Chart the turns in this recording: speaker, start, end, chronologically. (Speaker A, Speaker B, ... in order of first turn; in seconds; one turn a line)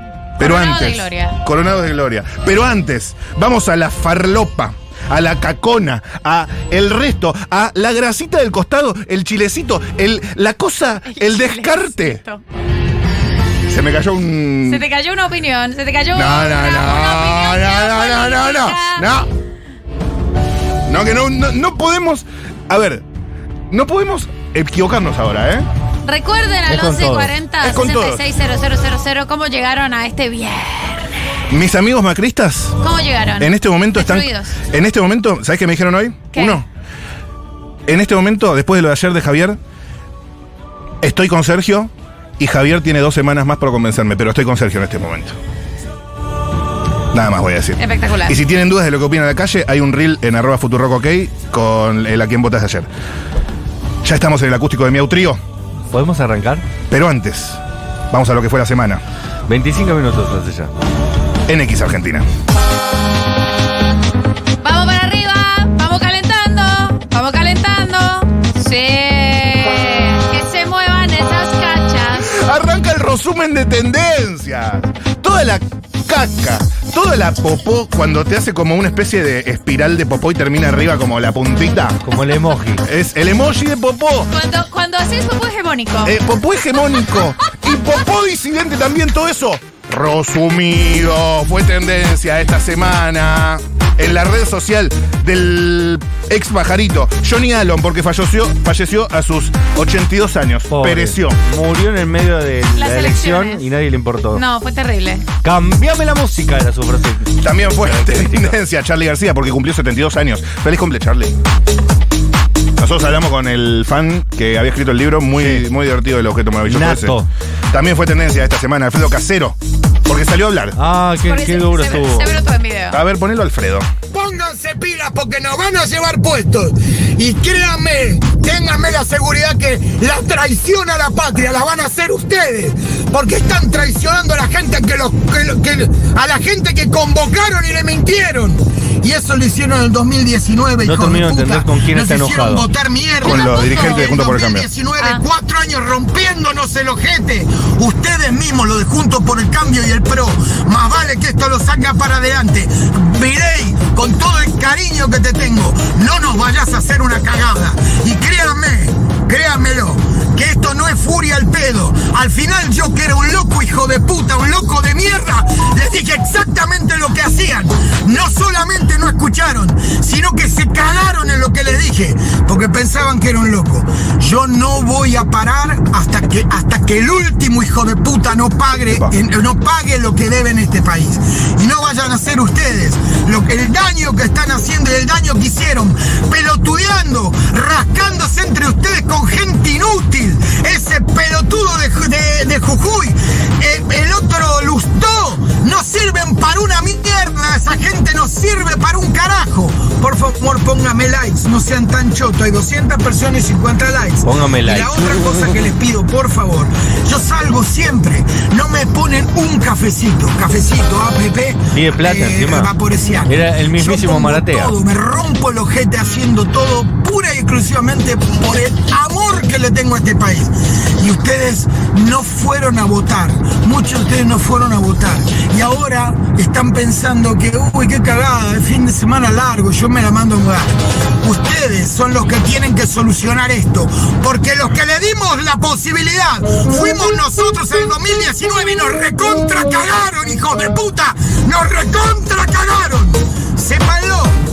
Speaker A: 0.4-12.2
Speaker B: 0.4-1.4
Speaker B: 11.1-12.4
Speaker A: 13.7-14.8
Speaker B: 14.7-19.1
Speaker A: 16.1-19.3
Speaker A: 20.9-23.0
Speaker A: 23.7-25.7
Speaker B: 26.1-31.1
Speaker C: 26.7-27.3
Speaker A: 27.6-28.2
Speaker A: 31.5-32.8
Speaker B: 32.8-34.6
Speaker A: 33.4-36.7
Speaker B: 36.3-36.6
Speaker A: 37.9-39.6
Speaker A: 41.0-45.4
Speaker A: 47.1-52.9
Speaker B: 47.8-48.4
Speaker A: 54.0-55.4
Speaker C: 55.9-56.6
Speaker A: 56.9-59.0
Speaker C: 59.5-60.7
Speaker A: 61.5-62.3
Speaker B: 64.6-72.3
Speaker A: 72.2-82.0
Speaker C: 82.0-82.8
Speaker A: 82.8-84.3
Speaker B: 84.3-86.2
Speaker A: 86.0-101.4
Speaker C: 100.7-104.4
Speaker B: 102.8-103.7
Speaker B: 104.3-105.2
Speaker C: 105.4-108.6
Speaker A: 107.4-111.4
Speaker A: 112.8-117.2
Speaker C: 115.4-115.7
Speaker C: 116.7-117.3
Speaker A: 117.7-120.8
Speaker C: 120.8-122.3
Speaker B: 121.2-123.0
Speaker A: 122.9-123.9
Speaker D: 124.1-244.4
Speaker C: 140.8-142.7
Speaker A: 143.2-144.7
Speaker B: 143.2-144.1
Speaker C: 204.2-205.7
Speaker C: 211.7-212.7
Speaker C: 213.3-214.8